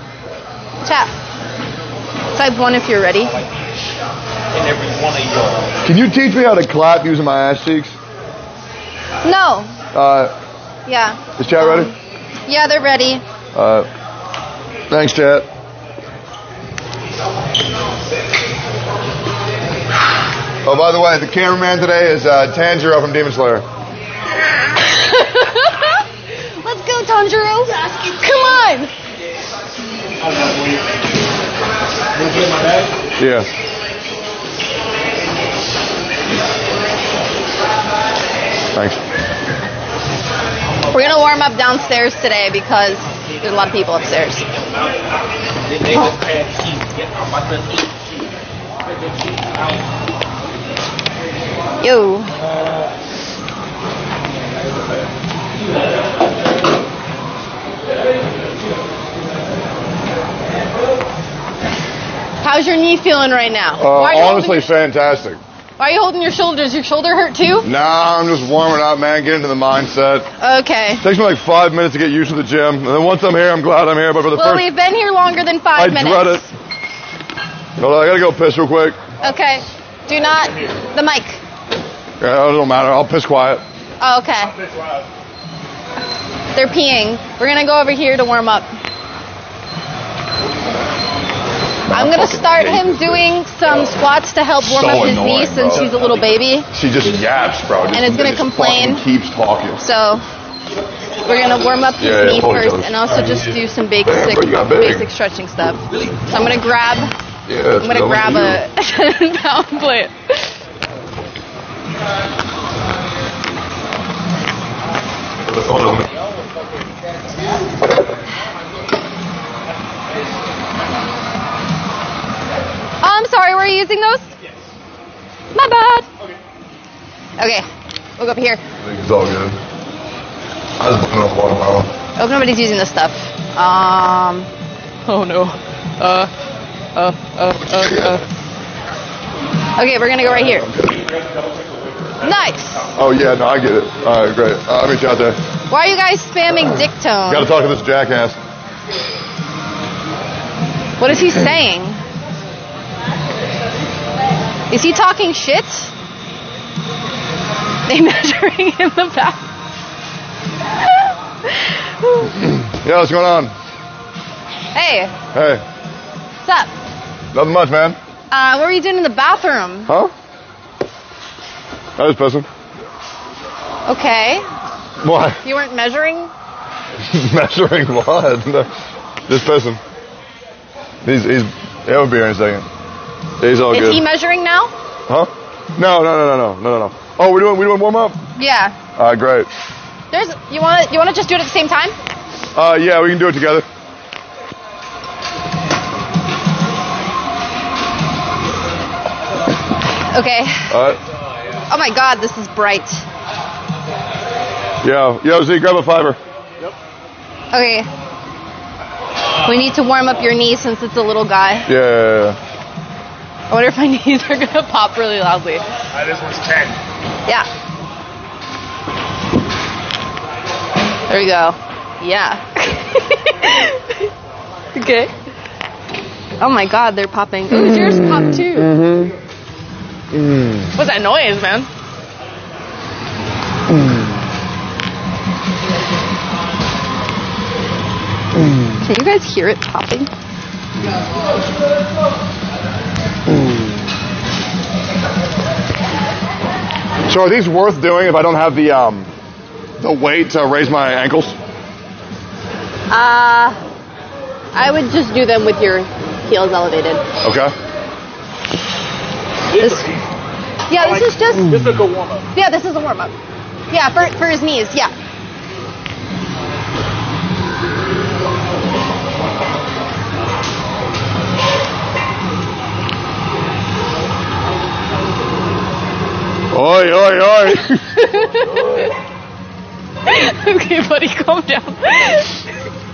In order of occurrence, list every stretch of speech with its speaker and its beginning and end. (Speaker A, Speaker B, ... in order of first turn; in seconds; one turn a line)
Speaker A: 0.8-1.1
Speaker A: 2.3-3.3
Speaker B: 4.5-5.7
Speaker C: 5.8-7.9
Speaker A: 9.2-9.7
Speaker C: 9.9-10.3
Speaker A: 10.9-11.9
Speaker C: 11.4-11.9
Speaker A: 12.4-13.2
Speaker C: 13.5-13.9
Speaker C: 14.9-15.5
Speaker C: 20.6-23.6
Speaker A: 24.7-26.0
Speaker A: 26.6-28.9
Speaker B: 30.2-31.0
Speaker B: 32.1-32.9
Speaker C: 33.2-33.5
Speaker C: 38.7-39.0
Speaker A: 40.9-44.5
Speaker B: 44.5-45.1
Speaker B: 45.6-48.2
Speaker A: 51.8-52.4
Speaker B: 52.4-52.9
Speaker A: 62.4-64.7
Speaker C: 63.8-65.4
Speaker A: 65.8-67.7
Speaker C: 67.6-70.3
Speaker A: 70.4-71.0
Speaker C: 71.0-74.7
Speaker A: 74.3-76.5
Speaker C: 75.7-76.4
Speaker C: 77.8-79.0
Speaker A: 79.2-81.4
Speaker C: 82.2-83.6
Speaker A: 84.0-84.5
Speaker B: 84.4-85.1
Speaker A: 86.5-88.7
Speaker C: 91.9-93.2
Speaker A: 91.9-96.7
Speaker C: 94.6-95.9
Speaker B: 95.7-96.4
Speaker C: 96.7-99.8
Speaker A: 97.9-99.0
Speaker A: 99.8-100.2
Speaker A: 101.2-107.1
Speaker C: 102.0-105.0
Speaker B: 105.9-106.2
Speaker C: 107.5-108.6
Speaker A: 107.8-110.5
Speaker C: 115.7-116.0
Speaker A: 123.0-124.2
Speaker A: 125.5-126.1
Speaker A: 127.4-127.7
Speaker A: 128.2-128.6
Speaker C: 128.8-129.6
Speaker C: 130.8-131.9
Speaker A: 132.2-134.5
Speaker A: 135.1-136.3
Speaker A: 136.9-138.2
Speaker A: 139.8-140.7
Speaker C: 140.7-140.9
Speaker B: 140.7-143.1
Speaker A: 142.2-142.8
Speaker C: 142.9-145.4
Speaker A: 145.7-147.5
Speaker C: 147.3-148.4
Speaker A: 151.0-152.0
Speaker A: 154.7-155.9
Speaker A: 157.9-159.4
Speaker A: 160.8-162.3
Speaker C: 162.4-163.5
Speaker A: 164.7-165.1
Speaker C: 165.3-165.6
Speaker A: 166.4-166.7
Speaker C: 167.3-168.0
Speaker A: 168.3-169.9
Speaker C: 169.9-170.1
Speaker C: 172.0-172.5
Speaker A: 173.9-174.4
Speaker C: 175.0-175.4
Speaker A: 175.4-176.3
Speaker C: 177.0-178.7
Speaker C: 179.3-179.8
Speaker C: 181.0-182.7
Speaker C: 183.4-184.0
Speaker A: 183.7-184.7
Speaker C: 185.1-188.2
Speaker A: 188.3-188.7
Speaker C: 189.0-189.5
Speaker A: 190.1-191.9
Speaker C: 192.5-193.7
Speaker A: 200.1-200.7
Speaker C: 200.7-201.0
Speaker A: 201.7-203.0
Speaker C: 204.8-206.2
Speaker A: 207.5-207.9
Speaker A: 209.4-211.7
Speaker C: 211.7-212.4
Speaker A: 213.5-215.6
Speaker B: 215.9-216.8
Speaker A: 221.1-224.1
Speaker A: 224.7-225.1
Speaker A: 226.4-228.8
Speaker C: 227.5-229.1
Speaker C: 230.1-230.7
Speaker A: 230.7-231.7
Speaker C: 238.4-238.7
Speaker A: 238.8-240.1
Speaker C: 243.3-243.6
Speaker C: 247.1-249.1
Speaker C: 249.8-251.4
Speaker A: 252.9-253.6
Speaker A: 254.5-257.0
Speaker C: 257.2-257.5
Speaker B: 259.5-260.1
Speaker A: 259.6-259.9
Speaker A: 260.7-261.6
Speaker B: 260.7-262.3
Speaker A: 262.3-263.1
Speaker A: 263.7-264.9
Speaker C: 276.5-278.1
Speaker A: 278.0-278.9
Speaker A: 280.1-282.3